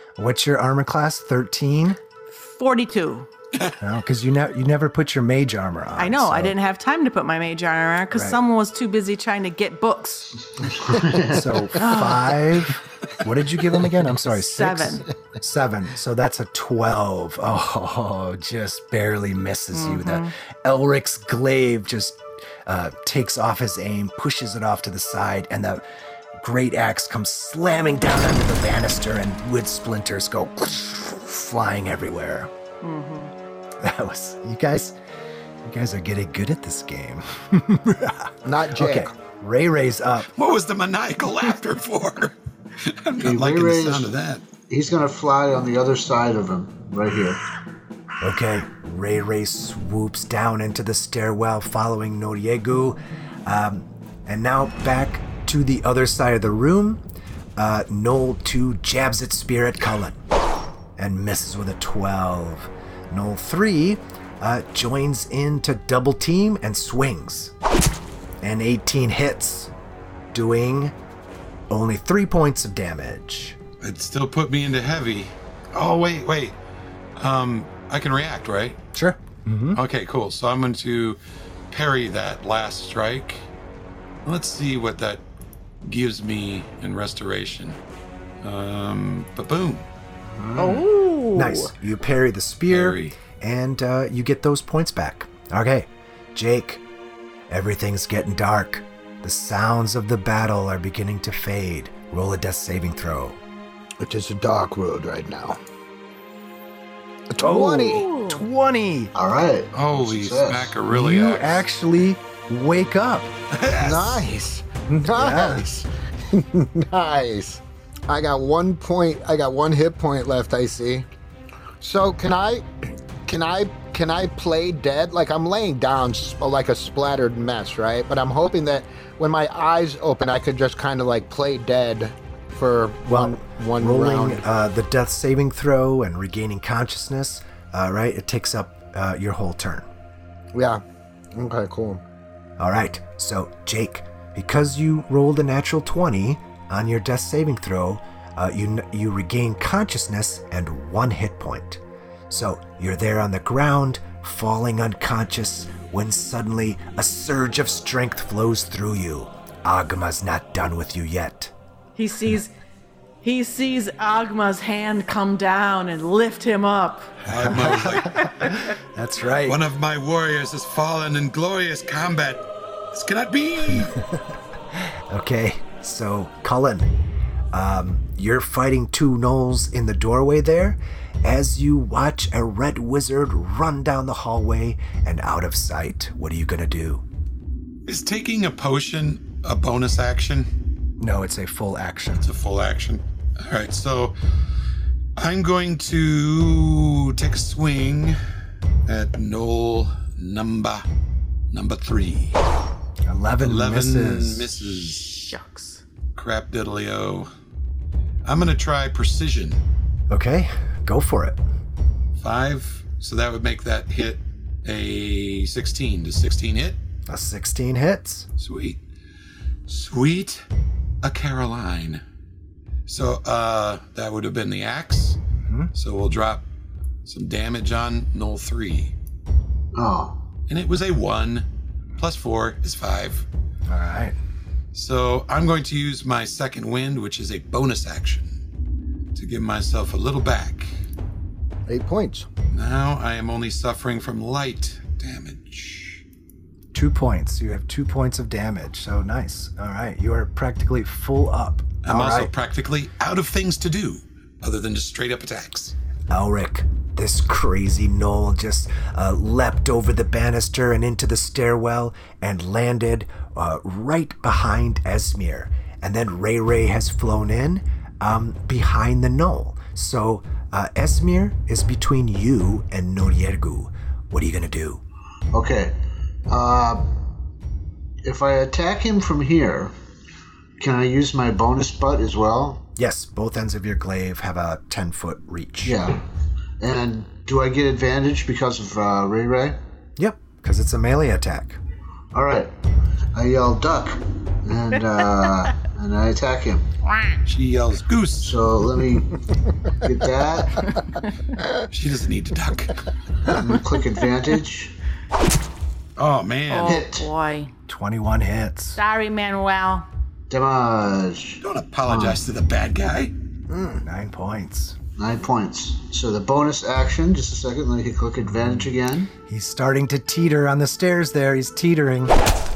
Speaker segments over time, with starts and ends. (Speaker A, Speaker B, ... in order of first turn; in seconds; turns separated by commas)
Speaker A: 0.2-2.0, Speaker B: 2.3-3.3, Speaker A: 3.8-6.5, Speaker B: 6.0-10.3, Speaker A: 8.1-8.4, Speaker C: 10.7-11.6, Speaker A: 11.3-25.8, Speaker B: 11.7-12.3, Speaker B: 14.3-15.1, Speaker B: 19.7-20.3, Speaker A: 26.4-32.5, Speaker B: 32.8-33.3, Speaker A: 33.8-35.0, Speaker A: 35.6-40.3, Speaker D: 38.4-39.1, Speaker E: 40.3-44.4, Speaker C: 43.2-44.1, Speaker C: 44.7-47.4, Speaker A: 48.2-57.0, Speaker A: 57.5-60.2, Speaker A: 61.0-67.5, Speaker A: 68.4-69.7, Speaker A: 70.3-70.9, Speaker A: 71.7-73.6, Speaker E: 73.8-76.5, Speaker E: 77.2-78.8, Speaker A: 78.9-79.8, Speaker E: 79.7-81.2, Speaker E: 81.7-83.4, Speaker E: 84.2-85.2, Speaker E: 85.8-87.8, Speaker E: 88.4-89.8, Speaker C: 90.3-90.9, Speaker B: 90.6-91.7, Speaker A: 91.3-96.8, Speaker E: 92.7-93.2, Speaker A: 97.5-103.4, Speaker D: 104.0-105.6, Speaker D: 107.3-108.1, Speaker A: 107.3-109.1, Speaker B: 107.9-108.4, Speaker C: 109.1-110.8, Speaker E: 109.7-111.6, Speaker A: 110.9-113.3, Speaker E: 113.5-114.3, Speaker D: 113.7-121.0, Speaker A: 115.0-115.7, Speaker D: 121.8-122.7, Speaker D: 123.2-134.4, Speaker A: 133.1-139.9, Speaker D: 140.5-140.8, Speaker D: 141.3-142.0, Speaker A: 142.6-161.5, Speaker B: 161.9-162.5, Speaker B: 163.2-167.1, Speaker E: 167.2-168.3, Speaker A: 167.3-169.6, Speaker B: 168.1-168.5, Speaker E: 169.4-174.0, Speaker A: 173.7-174.1, Speaker A: 174.7-176.9, Speaker A: 177.5-187.0, Speaker E: 187.8-190.5, Speaker A: 191.0-192.3, Speaker E: 192.2-194.1, Speaker E: 195.2-198.2, Speaker E: 198.8-200.8, Speaker E: 201.5-202.4, Speaker A: 203.1-204.8, Speaker E: 203.4-205.3, Speaker B: 205.2-205.8, Speaker E: 206.1-207.3, Speaker E: 208.2-209.6, Speaker A: 210.1-211.4, Speaker E: 212.2-216.8, Speaker A: 217.1-218.3, Speaker E: 218.4-218.8, Speaker E: 219.7-220.4, Speaker E: 221.0-222.0, Speaker E: 222.9-225.2, Speaker A: 225.4-225.7, Speaker E: 225.7-226.4, Speaker E: 227.0-228.9, Speaker C: 229.7-230.2, Speaker E: 230.5-233.2, Speaker A: 233.7-234.2, Speaker E: 234.7-238.3, Speaker E: 239.1-240.7, Speaker D: 241.7-242.3, Speaker E: 242.5-246.0, Speaker A: 246.7-252.3, Speaker E: 251.8-255.7, Speaker A: 256.1-274.8, Speaker C: 275.3-275.7, Speaker C: 276.3-276.8, Speaker C: 278.0-279.7, Speaker C: 280.6-282.6, Speaker A: 282.8-285.8, Speaker C: 285.6-286.0, Speaker C: 286.6-289.6, Speaker A: 290.0-291.6, Speaker C: 292.1-292.5, Speaker C: 293.1-296.6, Speaker E: 297.3-298.3, Speaker C: 298.2-299.1, Speaker C: 299.8-300.6, Speaker E: 301.7-302.8, Speaker C: 303.3-304.7, Speaker E: 306.0-306.8, Speaker B: 306.5-307.5, Speaker C: 306.6-307.1, Speaker A: 307.7-308.8, Speaker B: 308.8-309.9, Speaker C: 310.3-312.2, Speaker E: 311.4-313.1, Speaker D: 313.5-313.8, Speaker A: 313.8-314.8, Speaker C: 315.0-319.1, Speaker A: 319.2-322.1